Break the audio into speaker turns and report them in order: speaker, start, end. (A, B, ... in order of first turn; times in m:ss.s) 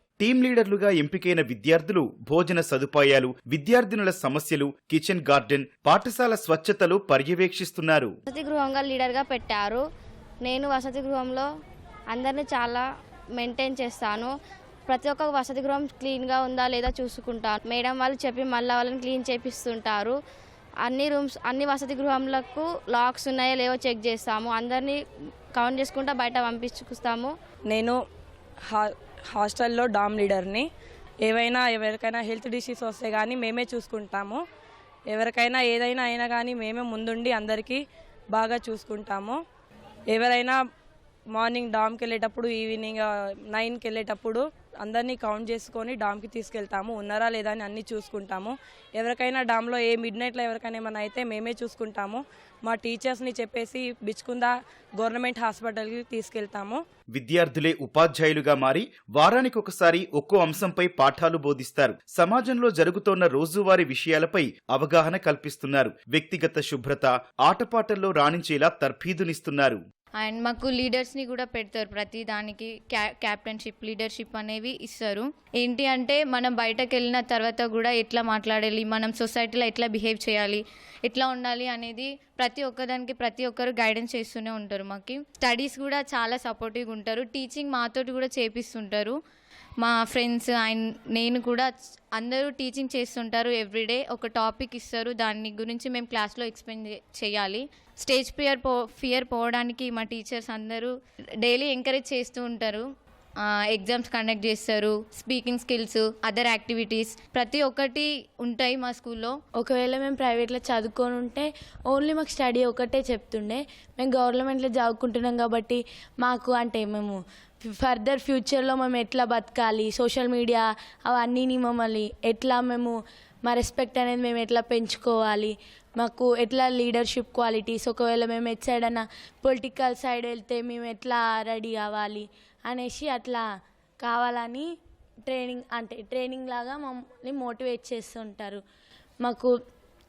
0:00.2-0:08.1 A
0:08.3-0:09.8 B
0:10.4-0:11.5 B
0:12.1-0:12.8 B
0:13.4-0:14.3 B
0:14.9-0:20.2 B
0:20.8-0:25.0 B
0:25.5-0:27.3 B
0:27.7-0:28.0 C
0:28.7-0:30.7 C
0:31.2-0:34.4 C
0:35.1-0:39.4 C
0:40.1-0:40.6 C
0:41.3-0:56.8 C
0:57.1-1:09.8 A
1:10.2-1:29.2 D
1:29.8-1:42.8 D
1:43.7-1:49.4 D
1:49.6-2:13.4 E
2:14.0-2:14.7 E
2:15.3-2:18.6 E
2:19.2-2:19.6 E